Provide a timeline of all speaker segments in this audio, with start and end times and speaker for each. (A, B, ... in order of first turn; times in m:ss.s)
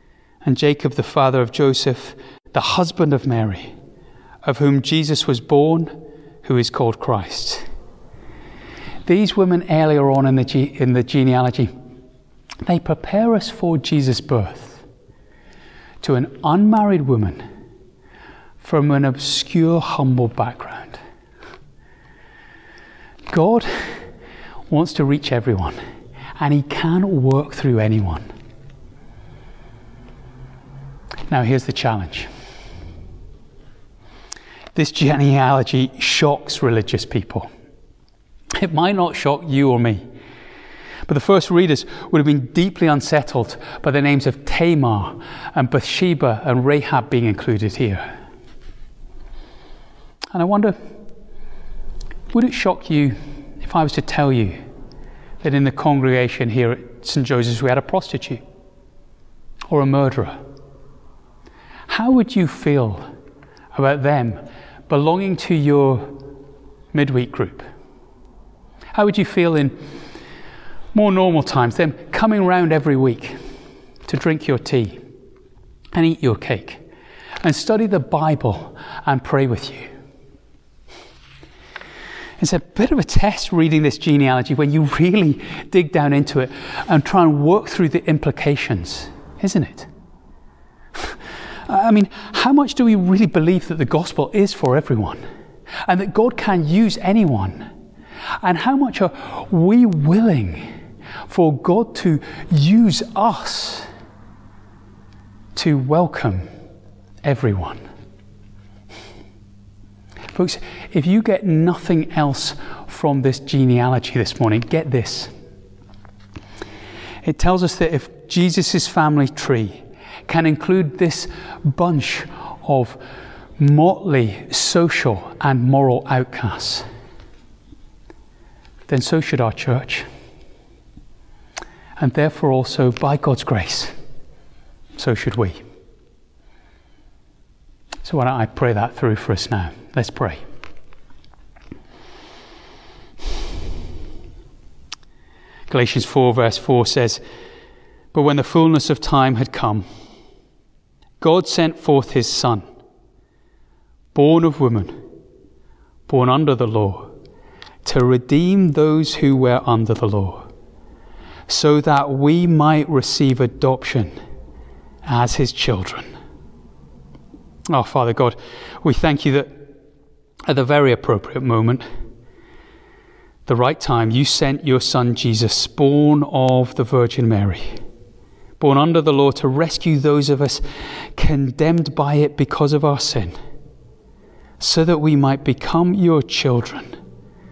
0:00.4-0:03.7 A
0:04.4-0:07.6 A
0:09.1-0:11.7 A
0:12.6-0:14.8 A
0:16.0-0:17.4 A
0:18.6-0:21.0 A
0:23.3-0:24.0 A
0:24.7-0:25.8 A
0:26.4-0:28.2 A
0:31.3-0:32.3 A
0:34.8-0:37.5 A
0:38.6-0:40.0 A
0:41.1-0:48.1 A
0:50.3-0:50.8 A
0:52.3-0:54.6 A
0:55.4-0:58.4 A
0:59.7-1:00.4 A
1:01.9-1:03.0 A
1:03.8-1:06.2 A
1:06.9-1:07.7 A
1:09.0-1:09.8 A
1:10.9-1:13.4 A
1:14.1-1:15.0 A
1:15.9-1:16.8 A
1:17.4-1:19.9 A
1:22.4-1:29.9 A
1:31.0-1:35.2 A
1:35.9-1:37.7 A
1:38.4-1:40.6 A
1:41.3-1:43.9 A
1:45.6-1:46.4 A
1:47.2-1:47.8 A
1:50.3-1:55.3 A
1:57.2-2:03.0 A
2:03.6-2:06.9 A
2:08.9-2:10.1 A
2:12.0-2:14.0 A
2:15.0-2:15.6 A
2:18.0-2:20.4 A
2:25.7-2:27.2 A
2:28.1-2:29.9 A
2:31.2-2:32.7 A
2:34.1-2:35.0 A
2:36.1-2:37.1 A
2:37.8-2:40.5 A
2:41.5-2:44.1 A
2:45.1-2:46.1 A
2:47.7-2:49.6 A
2:50.5-2:51.8 A
2:53.5-2:57.8 A
2:58.6-3:00.6 A
3:01.2-3:03.4 A
3:04.6-3:07.0 A